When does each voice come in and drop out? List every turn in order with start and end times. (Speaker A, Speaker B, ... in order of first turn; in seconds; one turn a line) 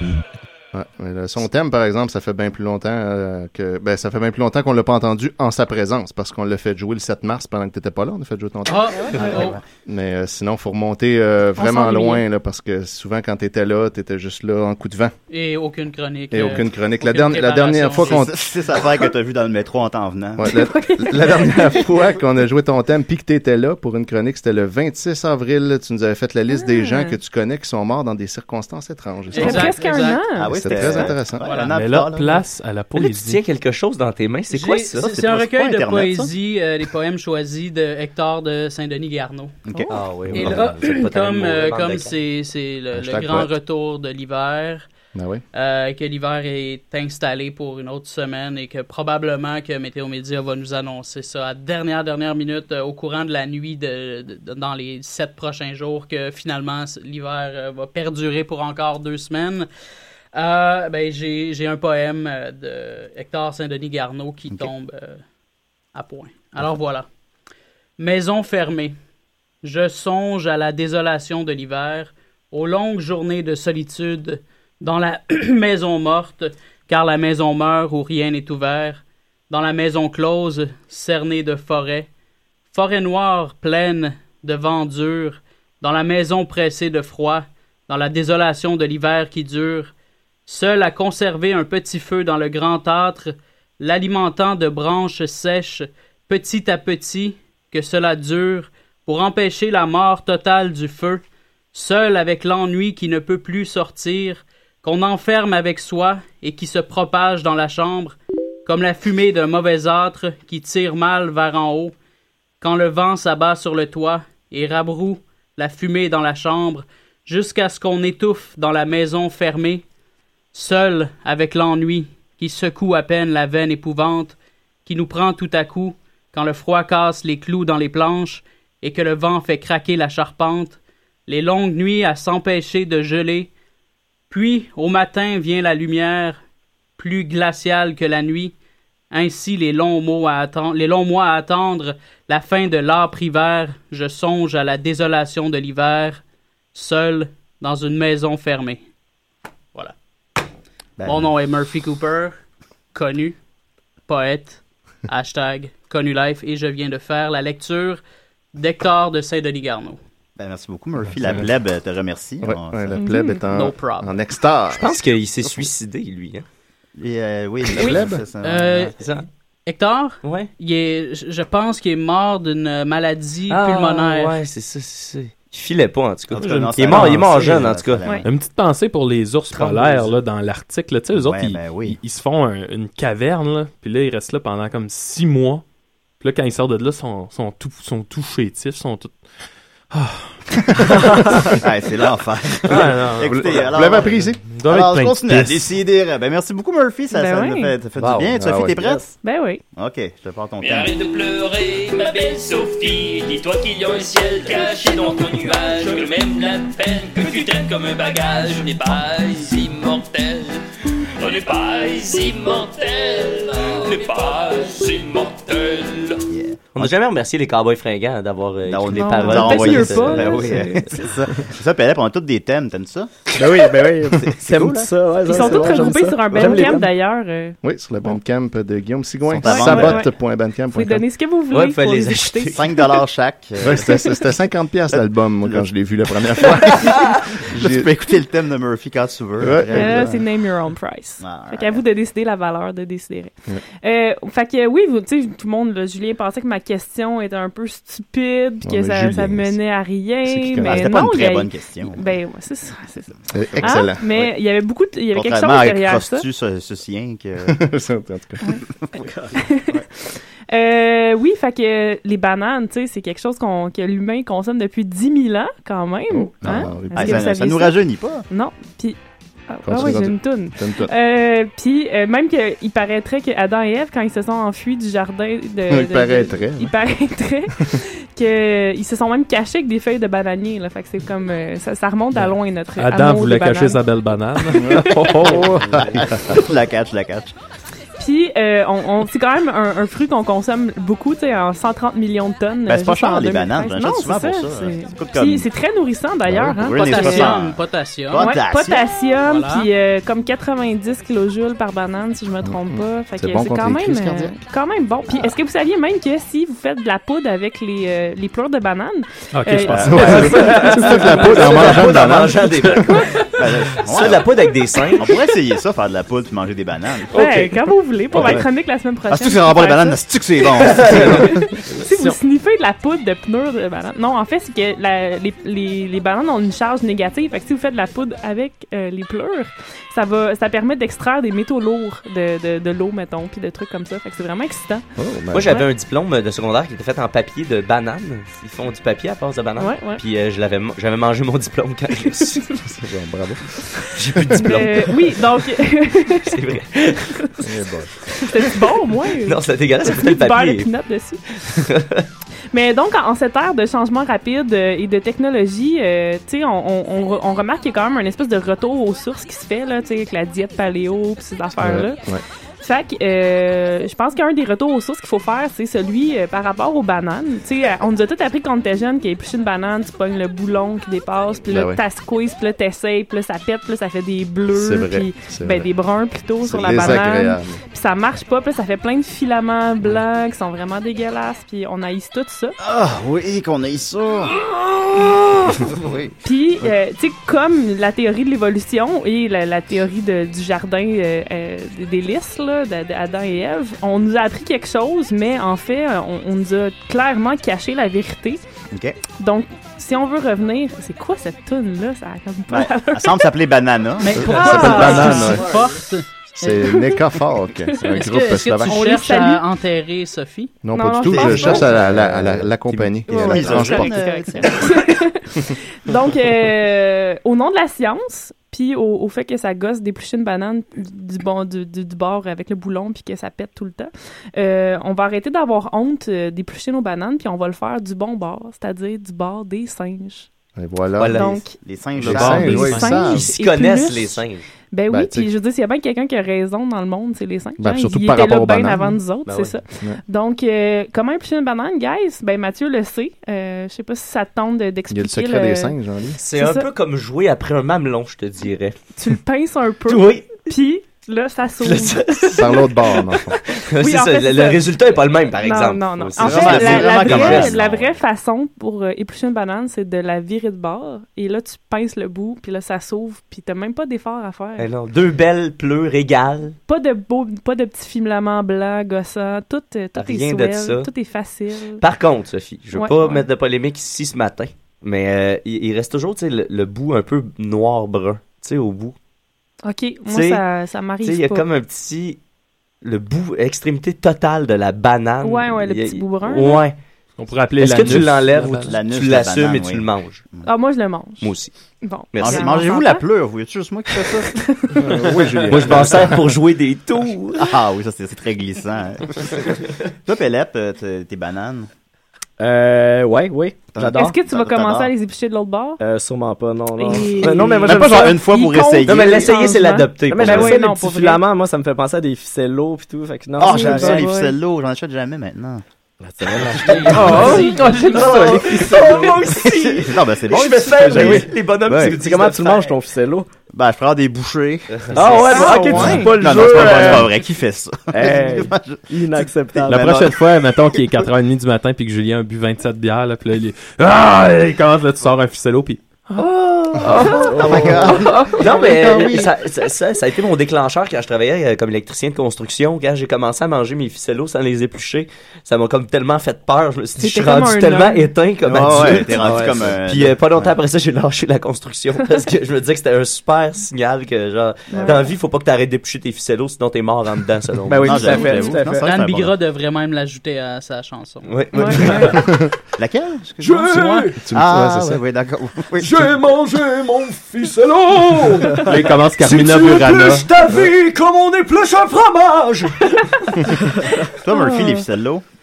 Speaker A: 0.7-15.1
Speaker B: 8.7-9.6
Speaker C: 8.9-9.5
Speaker D: 9.2-9.5
Speaker C: 11.6-12.2
Speaker B: 15.3-18.2
Speaker A: 16.3-18.3
Speaker D: 18.0-20.5
Speaker A: 20.4-29.7
Speaker C: 20.4-21.9
Speaker C: 26.5-27.2
Speaker B: 29.3-30.3
Speaker C: 29.4-30.9
Speaker D: 30.4-32.4
Speaker A: 30.4-31.5
Speaker B: 31.4-31.7
Speaker E: 31.7-33.4
Speaker F: 32.9-35.1
Speaker B: 34.5-39.6
Speaker D: 35.0-36.3
Speaker D: 39.7-40.7
Speaker F: 39.9-42.1
Speaker B: 40.3-44.9
Speaker A: 42.9-43.5
Speaker A: 45.1-45.4
Speaker B: 45.5-59.7
Speaker B: 60.3-65.2
Speaker B: 65.9-67.1
Speaker B: 68.0-68.9
Speaker B: 69.6-82.1
Speaker B: 82.7-89.9
Speaker B: 90.5-101.2
Speaker B: 101.7-111.9
Speaker B: 112.6-119.8
Speaker B: 120.5-133.5
Speaker B: 134.3-136.4
Speaker B: 137.0-138.5
Speaker B: 139.1-146.2
Speaker B: 146.7-148.8
Speaker D: 151.0-151.3
Speaker B: 151.1-152.3
Speaker B: 152.9-153.3
Speaker B: 154.1-158.0
Speaker B: 158.5-160.0
Speaker D: 160.4-163.0
Speaker A: 161.2-161.4
Speaker A: 162.4-164.9
Speaker C: 162.9-163.4
Speaker B: 163.5-164.2
Speaker F: 164.7-166.4
Speaker D: 167.0-168.9
Speaker A: 167.7-168.2
Speaker B: 168.4-168.9
Speaker F: 168.9-169.3
Speaker B: 169.7-174.4
Speaker F: 170.2-170.5
Speaker F: 173.5-178.1
Speaker D: 176.3-178.2
Speaker E: 176.8-177.4
Speaker E: 178.2-185.6
Speaker F: 179.5-180.1
Speaker D: 181.1-182.0
Speaker E: 186.2-189.1
Speaker E: 189.9-190.4
Speaker D: 191.3-199.2
Speaker E: 192.7-193.5
Speaker A: 193.5-194.4
Speaker E: 194.5-195.7
Speaker C: 197.1-197.7
Speaker F: 198.1-198.3
Speaker A: 198.4-198.8
Speaker C: 199.2-199.6
Speaker D: 199.8-200.9
Speaker G: 200.6-210.6
Speaker G: 211.2-216.3
Speaker D: 216.3-216.9
Speaker F: 216.7-220.7
Speaker D: 218.7-223.1
Speaker C: 218.9-221.0
Speaker H: 223.3-226.9
Speaker D: 224.3-225.9
Speaker C: 225.2-227.6
Speaker A: 227.6-231.1
Speaker D: 229.3-230.0
Speaker C: 229.4-230.1
Speaker C: 230.7-232.8
Speaker F: 231.5-232.7
Speaker D: 232.5-234.2
Speaker A: 233.6-237.9
Speaker D: 234.9-235.7
Speaker D: 236.3-240.2
Speaker A: 239.4-240.2
Speaker C: 239.7-253.1
Speaker D: 241.2-241.8
Speaker A: 248.6-249.6
Speaker A: 250.2-251.0
Speaker D: 250.6-252.2
Speaker A: 253.3-254.3
Speaker D: 253.5-254.3
Speaker C: 253.6-256.2
Speaker D: 255.1-257.6
Speaker A: 257.5-258.4
Speaker H: 259.0-259.3
Speaker C: 259.4-259.8
Speaker C: 260.5-283.8
Speaker A: 266.1-267.3
Speaker D: 266.4-268.2
Speaker A: 269.6-270.9
Speaker A: 275.7-276.7
Speaker E: 282.8-285.7
Speaker C: 284.4-285.1
Speaker A: 284.5-286.4
Speaker D: 285.9-287.3
Speaker C: 288.0-297.5
Speaker D: 292.7-295.5
Speaker A: 296.2-296.6
Speaker D: 296.4-298.8
Speaker B: 296.8-298.3
Speaker C: 298.1-311.8
Speaker B: 299.2-299.7
Speaker A: 302.4-304.4
Speaker E: 309.3-311.0
Speaker D: 309.7-310.8
Speaker A: 309.7-313.0
Speaker F: 311.3-312.9
Speaker D: 313.3-317.1
Speaker F: 313.8-315.2
Speaker C: 317.1-320.0
Speaker E: 317.1-317.6
Speaker D: 318.1-318.5
Speaker D: 319.1-321.4
Speaker C: 320.9-334.8
Speaker A: 335.0-335.6
Speaker F: 335.3-342.4
Speaker C: 335.4-335.7
Speaker C: 339.6-340.0
Speaker C: 342.1-342.6
Speaker A: 342.6-344.3
Speaker C: 343.8-347.4
Speaker F: 344.0-345.3
Speaker F: 346.2-347.2
Speaker A: 347.4-347.9
Speaker C: 348.0-351.2
Speaker F: 349.2-350.7
Speaker F: 351.5-352.1
Speaker C: 352.5-362.0
Speaker A: 361.6-362.2
Speaker C: 362.6-382.5
Speaker A: 371.5-371.8
Speaker A: 374.5-375.7
Speaker A: 376.4-377.6
Speaker D: 382.6-386.1
Speaker C: 386.2-398.4
Speaker D: 398.7-399.0
Speaker C: 399.2-403.4
Speaker D: 402.5-404.9
Speaker B: 404.0-406.1
Speaker A: 404.1-405.6
Speaker C: 404.2-405.5
Speaker A: 406.3-408.8
Speaker C: 406.4-409.4
Speaker B: 407.9-410.6
Speaker A: 410.6-414.0
Speaker C: 410.7-411.8
Speaker D: 411.1-412.4
Speaker C: 413.1-430.3
Speaker D: 413.1-414.9
Speaker A: 430.6-431.3
Speaker F: 431.0-431.4
Speaker C: 431.0-431.6
Speaker D: 431.6-432.8
Speaker A: 432.0-433.3
Speaker E: 432.0-432.9
Speaker C: 432.4-446.7
Speaker F: 433.0-434.4
Speaker A: 434.9-435.3
Speaker A: 437.6-439.0
Speaker F: 439.2-439.6
Speaker A: 444.9-446.2
Speaker F: 446.2-448.8
Speaker C: 448.9-464.7
Speaker F: 449.9-450.5
Speaker F: 451.6-452.4
Speaker A: 452.3-453.4
Speaker F: 453.5-457.8
Speaker D: 456.2-458.0
Speaker F: 464.6-466.6
Speaker C: 466.7-471.8
Speaker F: 469.9-470.9
Speaker F: 471.8-478.9
Speaker C: 472.7-473.3
Speaker C: 479.6-481.5
Speaker F: 480.1-480.4
Speaker F: 481.0-482.2
Speaker F: 482.8-486.8
Speaker C: 485.2-486.6
Speaker E: 487.2-488.7
Speaker F: 487.6-490.2
Speaker D: 488.5-490.5
Speaker C: 490.4-493.0
Speaker F: 491.2-491.5
Speaker F: 492.1-492.5
Speaker D: 492.2-494.3
Speaker C: 494.3-494.8
Speaker A: 494.8-496.2
Speaker F: 495.5-497.5
Speaker D: 497.4-501.7
Speaker H: 502.4-504.1
Speaker D: 503.7-504.9
Speaker C: 503.9-505.8
Speaker H: 505.8-508.2
Speaker C: 506.8-511.2
Speaker F: 507.2-507.5
Speaker D: 507.5-509.3
Speaker F: 508.8-510.6
Speaker H: 510.1-514.0
Speaker D: 513.4-515.6
Speaker C: 513.4-514.4
Speaker H: 516.0-519.1
Speaker B: 516.6-517.7
Speaker D: 516.7-517.2
Speaker E: 516.9-519.0
Speaker F: 517.8-522.7
Speaker D: 519.4-522.0
Speaker H: 520.5-523.3
Speaker D: 523.5-530.2
Speaker F: 524.7-525.7
Speaker H: 524.9-527.1
Speaker C: 525.3-526.6
Speaker H: 527.9-530.0
Speaker E: 529.7-536.1
Speaker F: 536.2-537.5
Speaker E: 536.8-538.5
Speaker H: 537.2-538.2
Speaker D: 537.2-539.3
Speaker F: 538.3-558.2
Speaker C: 547.0-548.1
Speaker D: 548.5-550.5
Speaker H: 549.1-549.7
Speaker C: 554.7-555.1
Speaker H: 557.7-559.0
Speaker D: 557.8-559.3
Speaker C: 558.0-558.6
Speaker B: 558.8-561.3
Speaker F: 561.2-562.2
Speaker C: 561.5-562.2
Speaker A: 562.2-562.5
Speaker D: 562.8-566.1
Speaker E: 563.4-564.2
Speaker A: 564.2-565.0
Speaker E: 565.8-570.7
Speaker F: 569.2-572.9
Speaker D: 574.2-575.2
Speaker C: 574.3-574.8